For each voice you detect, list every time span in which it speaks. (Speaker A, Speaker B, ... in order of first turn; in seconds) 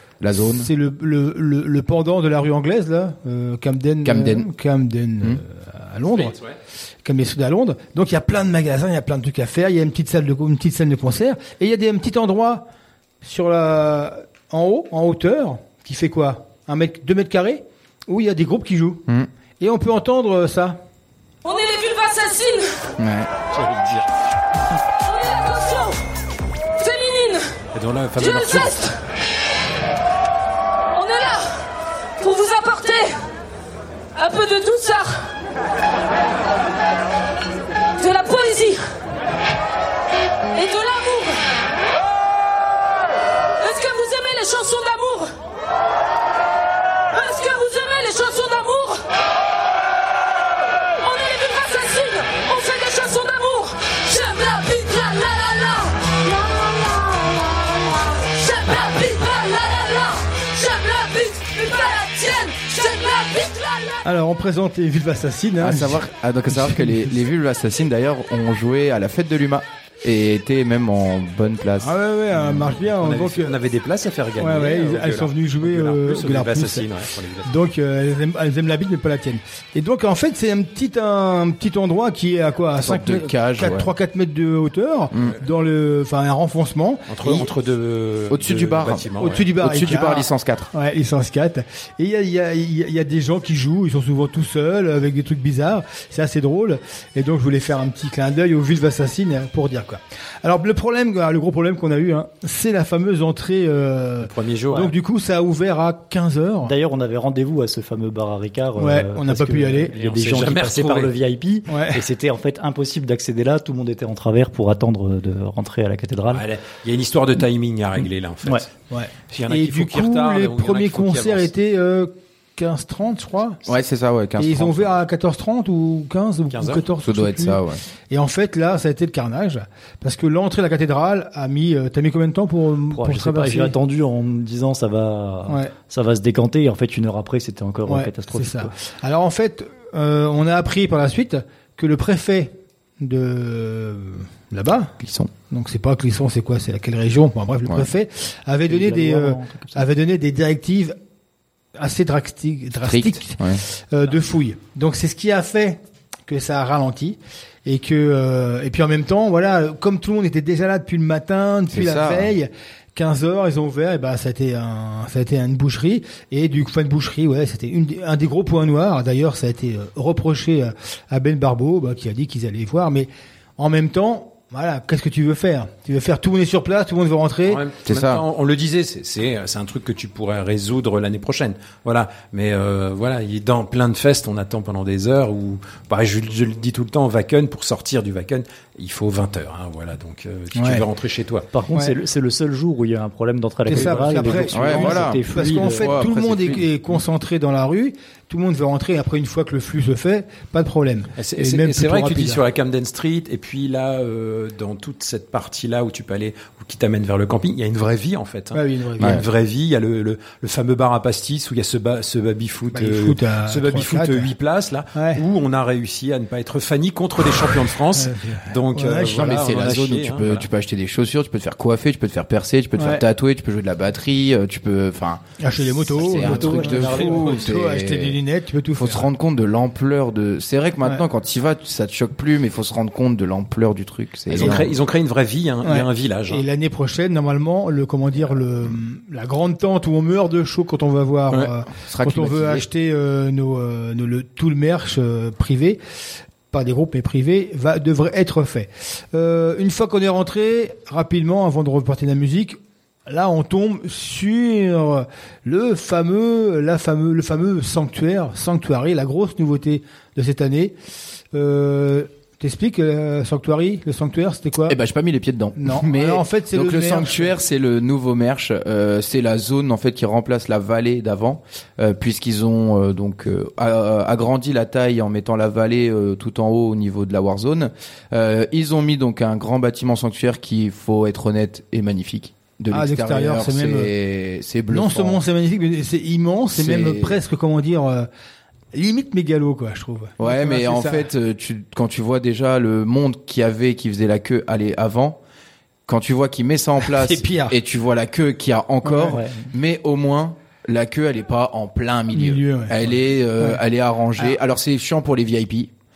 Speaker A: 0.2-0.7, 4.0-4.5, 23.0-23.3, 65.6-72.0, 82.8-83.9, 87.2-87.5, 88.3-90.7, 123.7-125.0, 127.0-127.8, 145.0-145.3, 147.7-147.9, 152.8-153.6, 161.7-162.3, 177.8-178.2, 194.5-196.7, 209.0-209.2, 219.1-228.2, 228.8-234.7, 241.8-242.7, 264.7-285.2, 286.5-287.2, 290.2-295.2, 295.9-305.7
Speaker B: 0.4-6.3, 7.0-12.7, 13.2-19.0, 19.6-20.8, 64.0-67.1, 71.8-73.5, 74.4-76.9, 77.5-87.1, 89.2-106.7, 108.8-109.9, 111.7-112.0, 118.9-123.6, 124.4-133.7, 137.9-144.9, 145.5-151.0, 151.8-177.6, 190.6-190.8, 193.7-202.4, 208.5-209.2, 212.7-214.3, 215.0-215.2, 217.9-219.7, 222.8-223.0, 225.4-229.1, 234.4-234.7, 235.6-245.8, 246.5-252.6, 253.1-260.7, 261.3-264.8, 265.6-267.3, 282.7-283.9, 284.7-288.1, 288.7-291.1, 296.8-297.6, 298.9-299.2, 302.1-303.6
Speaker C: 6.0-6.6, 23.5-24.1, 27.8-29.0, 72.4-77.5, 87.1-89.8, 104.2-104.9, 109.9-111.1, 116.3-118.7, 119.3-121.5, 126.5-126.9, 177.5-191.5, 193.8-194.5, 201.2-220.5, 234.3-236.4
Speaker D: 21.5-22.6, 25.2-26.0, 26.8-27.4, 31.0-31.4, 32.2-33.1, 34.2-35.2, 38.0-38.8, 40.6-41.4, 43.6-45.3, 47.2-49.0, 51.0-64.0
Speaker E: 106.7-116.4, 132.9-138.7, 148.7-149.9, 191.5-196.0, 226.0-227.5, 299.1-299.5